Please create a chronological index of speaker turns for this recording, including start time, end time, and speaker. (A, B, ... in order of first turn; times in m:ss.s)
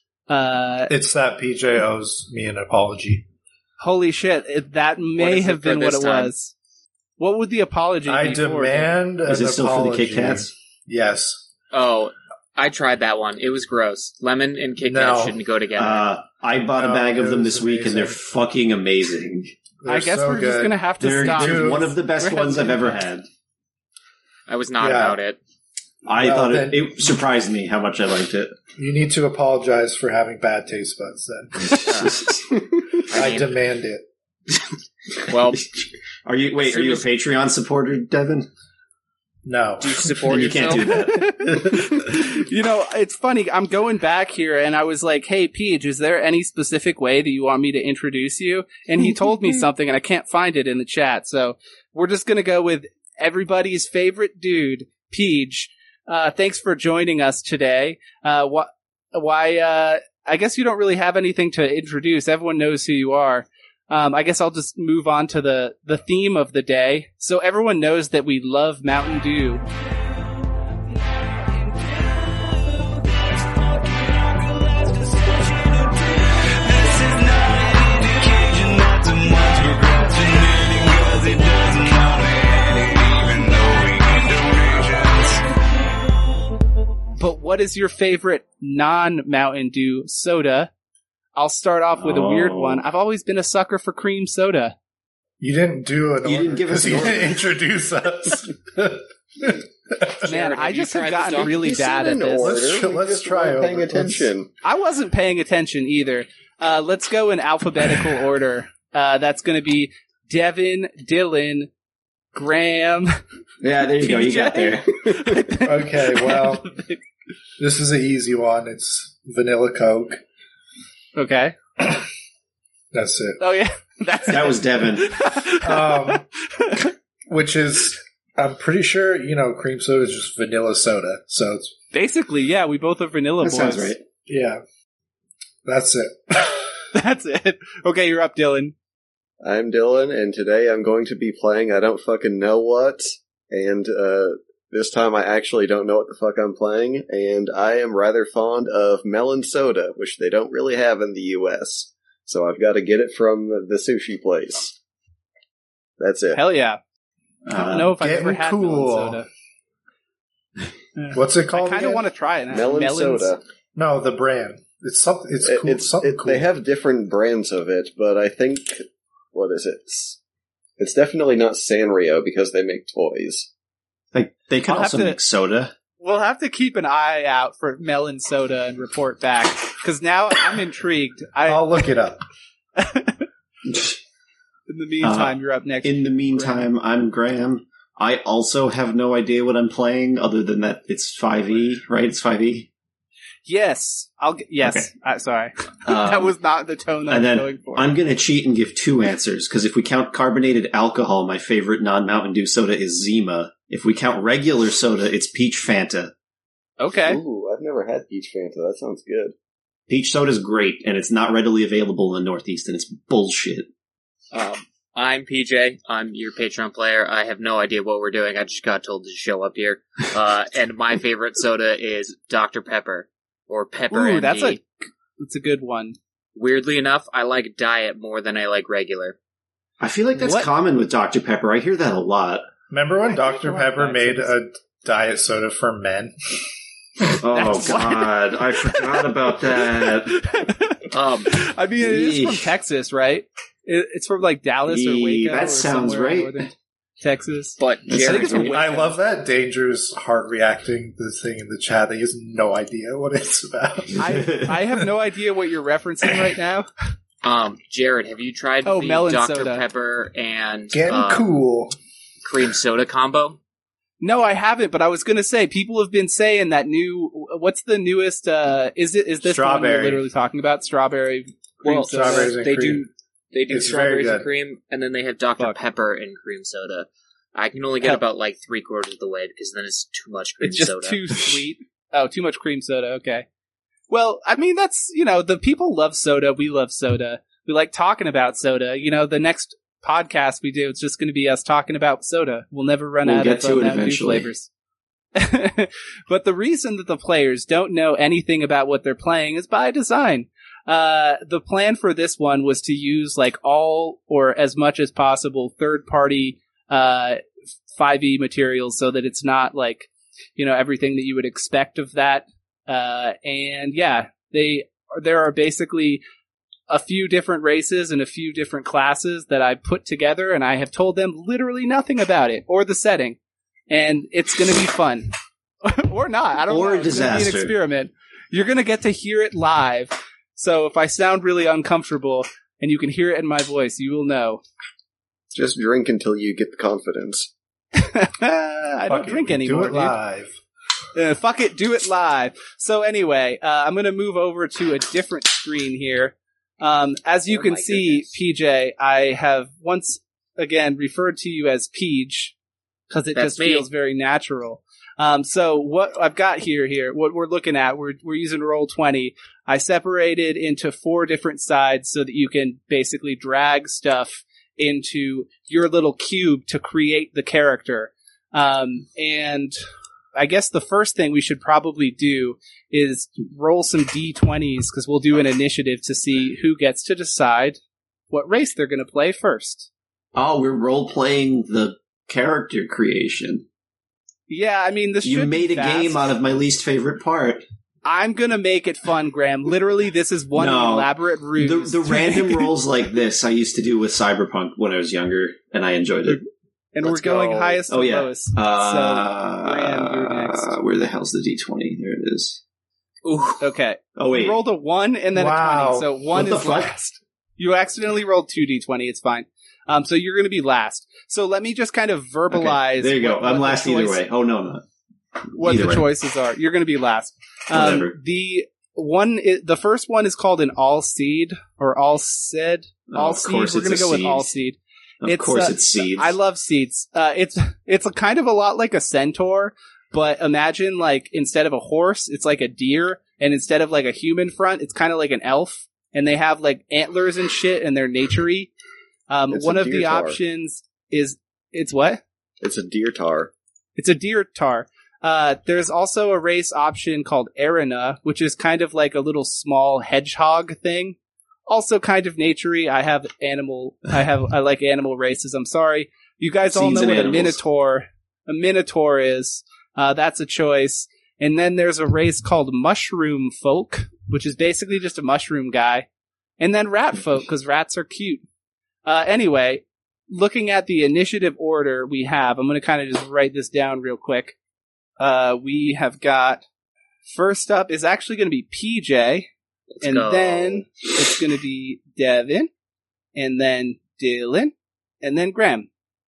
0:00.3-0:00.9 A
0:00.9-0:03.2 B
0:03.8-0:06.5 A
0:05.2-0:06.3 C
0:07.2-0:08.9 A
0:08.0-0:11.4 B
0:09.2-0:10.5 D
0:11.7-0:16.1 C
0:14.8-0:15.4 B
0:15.8-0:19.5 D
0:16.7-0:18.2 B
0:19.8-0:21.9 B
0:19.9-0:23.0 A
0:21.0-0:23.3 D
0:24.5-0:25.4 C
0:24.8-0:25.2 B
0:26.0-0:28.6 D
0:26.2-0:27.2 B
0:28.7-0:31.9 B
0:31.7-0:32.6 D
0:31.8-0:32.2 C
0:33.1-0:33.5 C
0:33.1-0:34.0 B
0:35.3-0:35.6 C
0:35.3-0:38.5 D
0:36.6-0:37.1 C
0:39.4-0:40.8 B
0:39.8-0:40.9 C
0:40.3-0:41.8 D
0:40.9-1:09.6 A
1:14.4-1:22.2 A
1:22.7-1:23.0 A
1:24.4-1:24.7 A
1:27.2-1:30.7 A
1:31.4-1:34.7 A
1:32.0-1:32.8 D
1:35.4-1:40.3 B
1:36.2-1:37.4 D
1:40.2-1:41.7 C
1:40.2-1:42.6 A
1:41.4-1:44.5 E
1:42.4-1:44.3 B
1:44.6-1:51.7 A
1:52.3-1:53.2 A
1:53.6-1:55.4 D
1:54.0-1:57.0 A
1:55.6-1:56.6 B
1:57.6-2:00.2 B
2:01.2-2:01.6 A
2:02.9-2:03.4 B
2:03.4-2:06.9 A
2:04.2-2:05.1 D
2:05.6-2:06.2 B
2:07.3-2:11.7 B
2:11.9-2:13.9 A
2:13.4-2:14.0 D
2:14.2-2:14.6 B
2:15.6-2:16.7 B
2:16.9-2:18.7 A
2:19.4-2:34.8 E
2:36.0-2:36.4 E
2:36.3-2:36.8 A
2:37.4-2:38.0 D
2:37.6-2:39.3 A
2:38.0-2:39.2 B
2:41.0-2:43.3 A
2:41.1-2:42.0 B
2:42.5-2:43.4 E
2:43.8-2:46.5 B
2:45.4-2:50.2 E
2:50.8-2:53.5 E
2:54.1-2:55.7 D
2:54.6-2:55.2 A
2:56.0-3:01.8 A
3:01.4-3:02.2 B
3:02.8-3:03.2 A
3:03.7-3:04.0 D
3:04.7-3:06.6 A
3:05.0-3:12.7 D
3:13.4-3:18.0 A
3:14.6-3:14.9 D
3:15.8-3:16.3 D
3:17.1-3:26.1 D
3:26.8-3:27.2 A
3:27.0-3:29.3 E
3:29.9-3:33.7 D
3:34.3-3:44.6 C
3:43.9-3:44.6 A
3:45.2-3:46.0 A
3:46.4-3:49.1 C
3:49.8-3:52.5 D
3:50.2-3:50.5 A
3:52.7-3:56.1 B
3:53.2-3:54.3 A
3:57.2-4:00.2 D
3:57.3-4:08.7 A
4:00.9-4:01.4 C
4:01.8-4:02.5 D
4:04.7-4:06.3 D
4:07.6-4:08.9 C
4:07.9-4:08.6 D
4:08.4-4:14.9 B
4:14.0-4:16.7 A
4:14.1-4:14.5 D
4:17.2-4:21.3 C
4:18.6-4:19.6 A
4:20.7-4:21.7 B
4:22.2-4:23.4 C
4:24.0-4:32.4 A
4:29.2-4:30.0 B
4:31.6-4:41.0 C
4:31.8-4:32.8 B
4:33.5-4:34.3 B
4:40.4-4:43.2 A
4:43.9-4:54.5 A
4:53.0-4:54.3 D
4:55.2-5:07.2 A
5:07.7-5:16.0 A
5:16.7-5:23.2 A
5:23.7-5:25.1 A
5:25.6-5:34.4 A
5:26.5-5:27.5 D
5:35.3-5:37.3 E
5:37.8-5:40.0 A
5:38.8-5:40.4 B
5:40.9-5:52.3 A
5:47.3-5:48.1 C
5:52.9-6:09.6 A
5:53.1-5:53.7 C
6:10.1-6:17.6 A
6:18.1-6:19.7 A
6:20.1-6:23.4 D
6:24.3-6:26.0 A
6:25.0-6:27.4 D
6:27.8-6:32.5 A
6:30.3-6:36.2 D
6:36.0-6:40.5 A
6:36.8-6:37.6 E
6:36.9-6:42.4 D
6:43.0-6:43.3 C
6:43.4-6:54.0 A
6:44.0-6:44.4 D
6:45.1-6:45.9 B
6:46.1-6:46.8 D
6:52.3-6:54.6 D
6:55.4-6:55.9 D
6:55.4-7:18.5 A
6:57.5-6:58.0 D
7:02.9-7:04.3 D
7:05.0-7:06.2 D
7:19.1-7:22.0 A
7:19.3-7:20.2 E
7:22.4-7:23.3 E
7:23.8-7:31.0 A
7:31.5-7:45.8 A
7:36.4-7:37.4 D
7:46.4-7:48.2 A
7:48.8-7:54.4 A
7:55.0-7:56.4 A
7:57.0-7:59.3 A
7:59.8-8:00.6 C
7:59.8-8:02.5 A
8:03.1-8:05.7 A